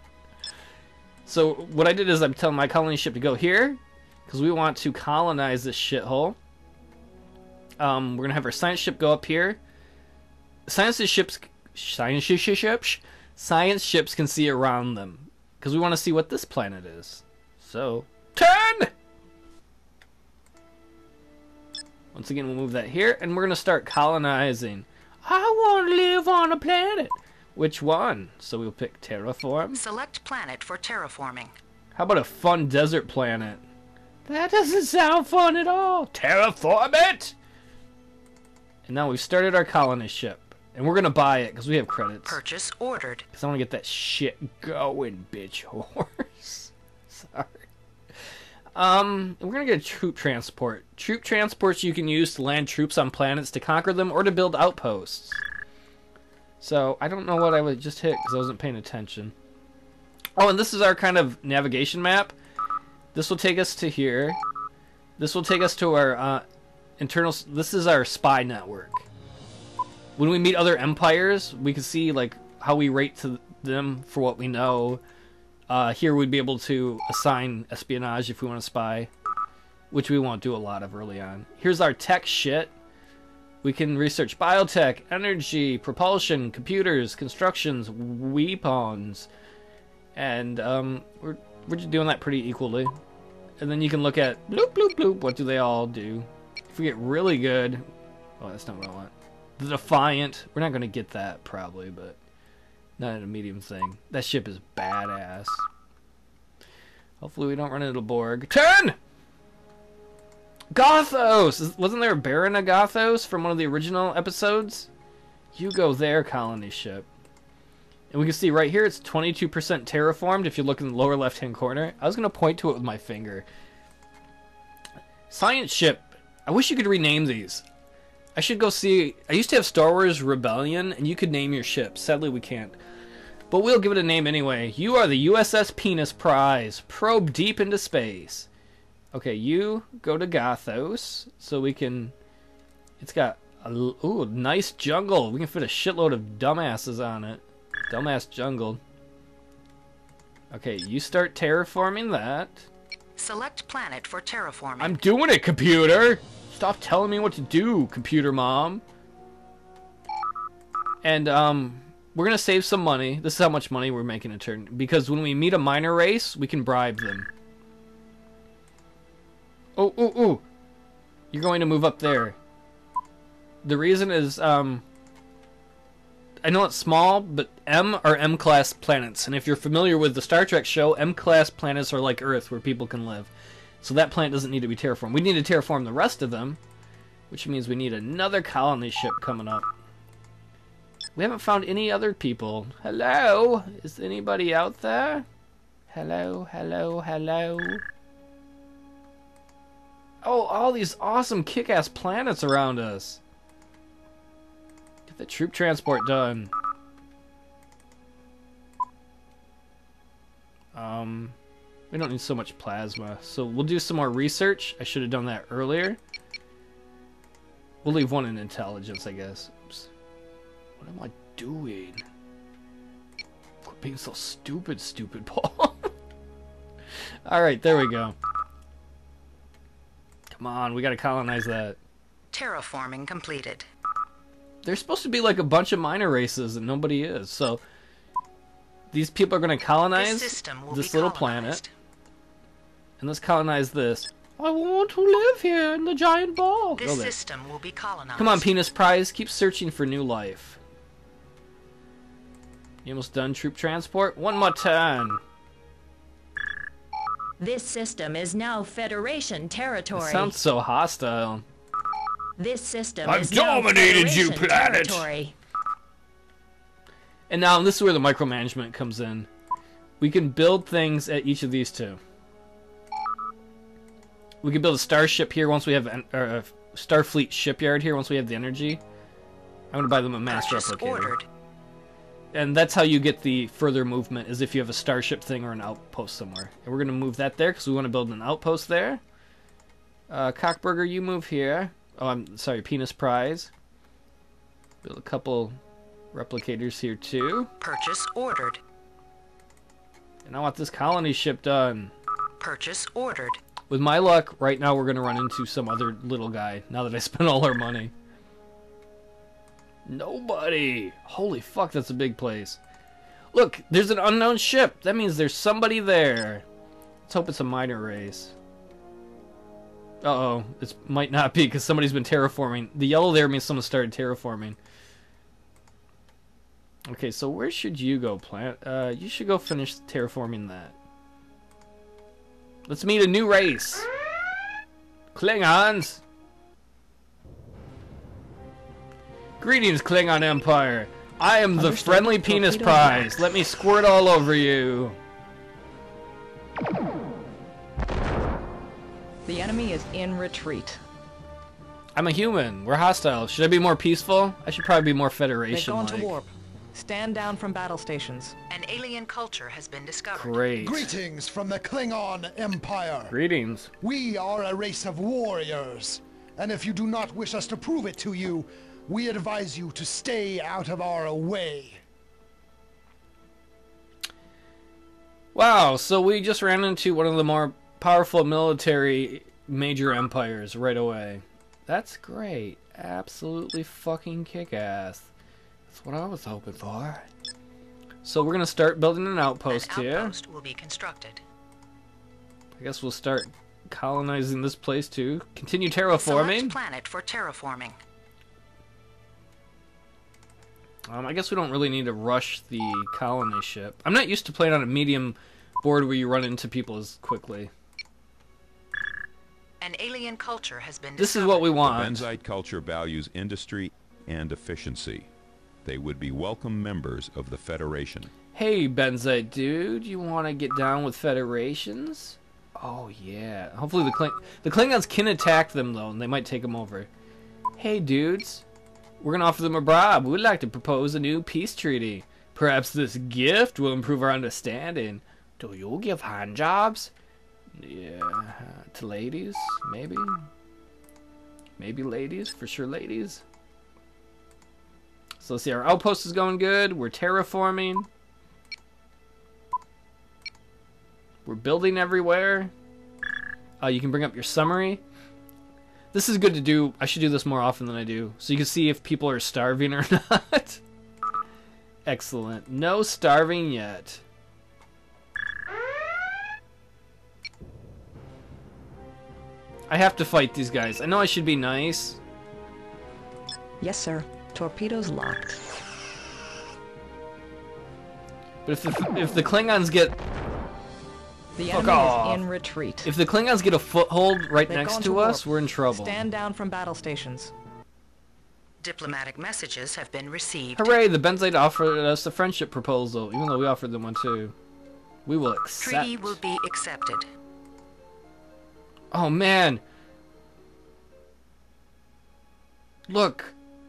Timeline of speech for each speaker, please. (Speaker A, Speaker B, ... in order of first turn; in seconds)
Speaker A: 1.3-6.4, 7.8-9.6, 10.7-18.9, 22.1-29.8, 31.9-33.6, 34.3-37.3, 38.9-42.4, 43.3-47.7, 48.8-55.4, 56.6-59.3, 60.4-62.3, 63.1-64.4, 65.2-66.4, 67.0-69.1, 70.2-75.0, 75.7-79.1, 79.9-82.7, 83.6-89.3, 90.2-93.0, 93.6-97.8, 98.4-102.2, 103.0-105.6, 107.2-109.0, 110.7-114.9, 115.5-117.1, 118.1-123.5, 125.3-127.6, 128.4-132.8, 133.5-138.5, 139.1-142.1, 143.0-148.8, 150.5-152.7, 154.8-158.8, 161.0-167.3, 169.8-170.4, 171.3-172.4, 173.6-174.8, 176.4-186.6, 187.3-189.7, 191.2-195.3, 195.9-197.8, 200.2-203.2, 205.1-206.5, 210.7-211.3, 211.9-216.0, 217.8-219.9, 220.8-222.0, 223.6-225.9, 227.3-228.2, 230.3-231.8, 234.7-237.6, 238.9-241.6, 243.0-247.1, 248.2-250.6, 252.8-255.2, 259.9-261.4, 263.0-265.1, 267.3-269.3, 270.0-272.0, 274.4-278.8, 279.7-281.1, 282.3-289.0, 290.1-293.5, 294.8-295.6, 296.1-297.5, 300.2-301.9, 303.7-307.9, 309.9-312.6, 313.3-316.4, 317.1-318.3, 320.0-324.6, 326.9-330.8, 332.7-333.9, 335.1-336.0, 339.4-345.0, 352.0-356.1, 360.1-361.0, 363.1-363.7, 375.4-385.1, 385.7-387.1, 388.0-390.2, 392.6-396.6, 400.9-407.5, 411.0-412.1, 418.4-426.9, 427.6-428.4, 429.0-436.9, 437.6-440.2, 441.6-443.2, 445.2-447.9, 451.2-452.5, 453.6-454.8, 455.9-460.6, 461.9-464.0, 469.7-472.0, 478.5-479.9, 481.5-482.2, 482.8-486.0, 490.6-494.4, 495.1-496.2, 498.9-499.6, 502.9-503.4
Speaker B: 29.8-31.6, 42.2-43.3, 153.2-155.0, 232.3-233.7, 239.9-241.7, 246.8-248.5, 280.3-281.3, 297.6-298.6, 302.4-303.4, 358.5-360.4, 389.5-391.2, 395.9-397.8, 409.6-411.6, 488.6-490.8, 495.6-497.1
Speaker C: 257.4-260.4, 262.4-265.3
Speaker D: 341.6-343.3, 349.3-350.8, 355.5-358.4, 473.6-475.4, 481.4-482.9, 484.5-487.3
Speaker E: 360.6-363.1, 363.8-371.8
Speaker F: 411.6-415.1, 415.6-418.1